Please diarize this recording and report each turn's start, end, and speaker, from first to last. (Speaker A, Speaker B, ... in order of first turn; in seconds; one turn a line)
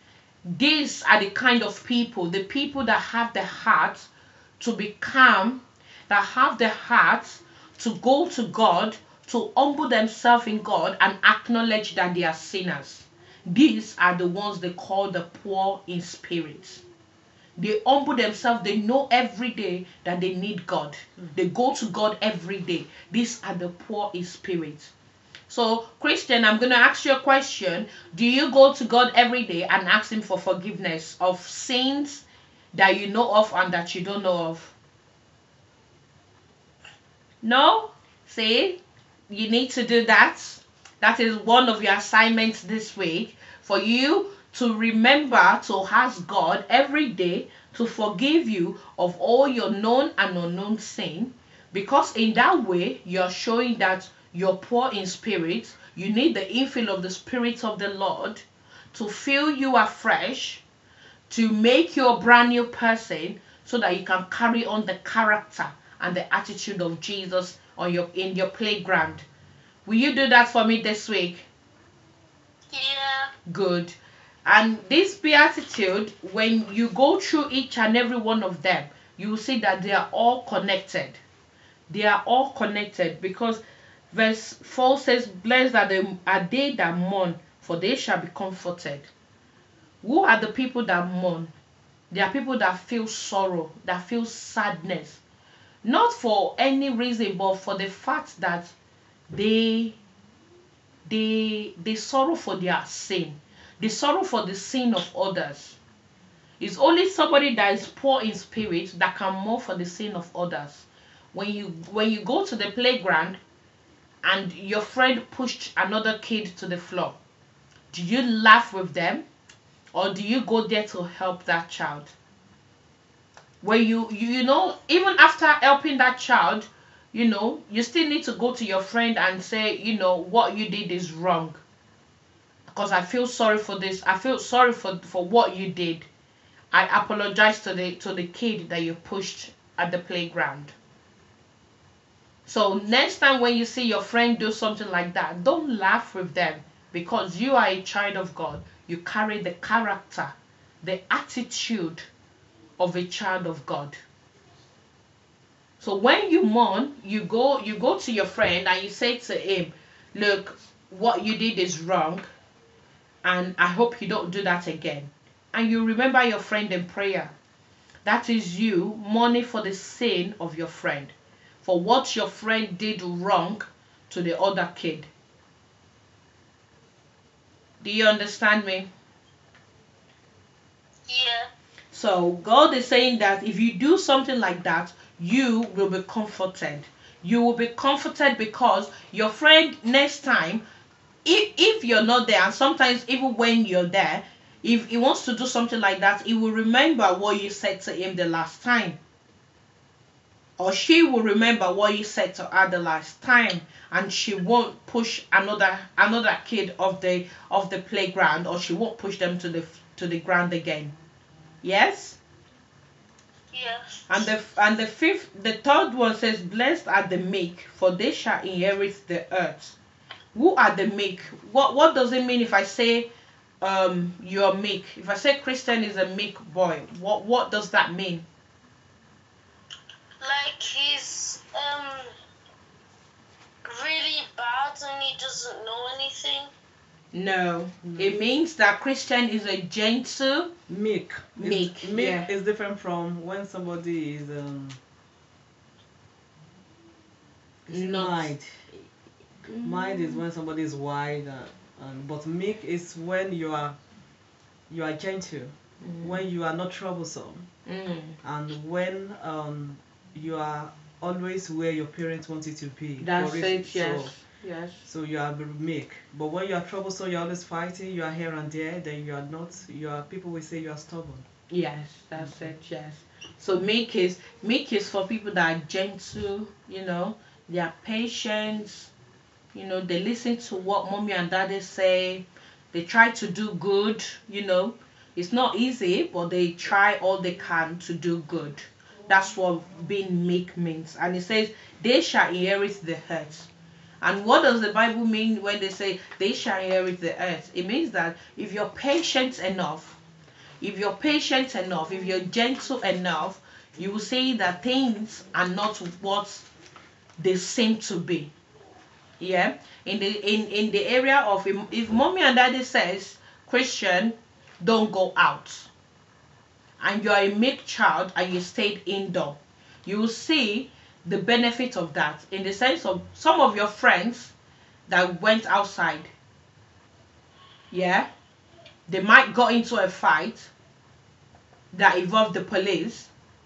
Speaker A: 0.5-16.8
Speaker A: 17.6-24.9
Speaker A: 25.5-34.7
Speaker A: 37.4-60.6
Speaker A: 61.3-69.2
Speaker A: 69.8-71.5
Speaker B: 72.7-73.3
Speaker A: 73.5-81.2
Speaker A: 81.9-83.6
Speaker A: 84.1-89.1
Speaker A: 90.0-91.5
Speaker A: 92.1-95.2
Speaker A: 95.8-98.7
Speaker A: 99.3-100.0
Speaker A: 101.1-105.8
Speaker A: 106.6-113.4
Speaker A: 114.2-117.2
Speaker A: 117.9-119.2
Speaker A: 119.9-122.1
Speaker A: 123.6-131.6
Speaker A: 132.7-136.1
Speaker A: 136.7-140.7
Speaker A: 142.5-152.1
Speaker A: 152.8-154.0
Speaker A: 155.8-162.3
Speaker A: 163.2-167.3
Speaker A: 168.0-175.1
Speaker A: 177.8-178.9
Speaker B: 181.1-181.5
Speaker A: 181.9-190.6
Speaker A: 191.2-199.0
Speaker A: 200.6-210.9
Speaker A: 211.6-212.2
Speaker B: 213.5-214.1
Speaker A: 214.1-219.8
Speaker A: 220.3-223.1
Speaker A: 223.6-228.2
Speaker B: 230.2-232.1
Speaker B: 233.7-236.5
Speaker A: 237.1-240.5
Speaker C: 237.8-238.2
Speaker C: 240.7-244.8
Speaker A: 241.3-242.3
Speaker A: 247.7-248.3
Speaker C: 247.7-248.8
Speaker A: 249.4-250.2
Speaker C: 249.6-253.8
Speaker C: 254.7-257.5
Speaker A: 255.8-256.2
Speaker A: 257.7-258.2
Speaker C: 258.2-264.1
Speaker A: 263.0-264.8
Speaker C: 264.8-271.2
Speaker A: 271.5-278.9
Speaker C: 272.1-272.5
Speaker A: 279.5-293.5
Speaker A: 294.0-300.0
Speaker A: 300.6-306.5
Speaker A: 307.2-308.3
Speaker A: 309.2-315.7
Speaker A: 316.8-324.3
Speaker A: 324.9-326.1
Speaker A: 327.7-328.1
Speaker A: 328.9-330.5
Speaker A: 331.7-333.1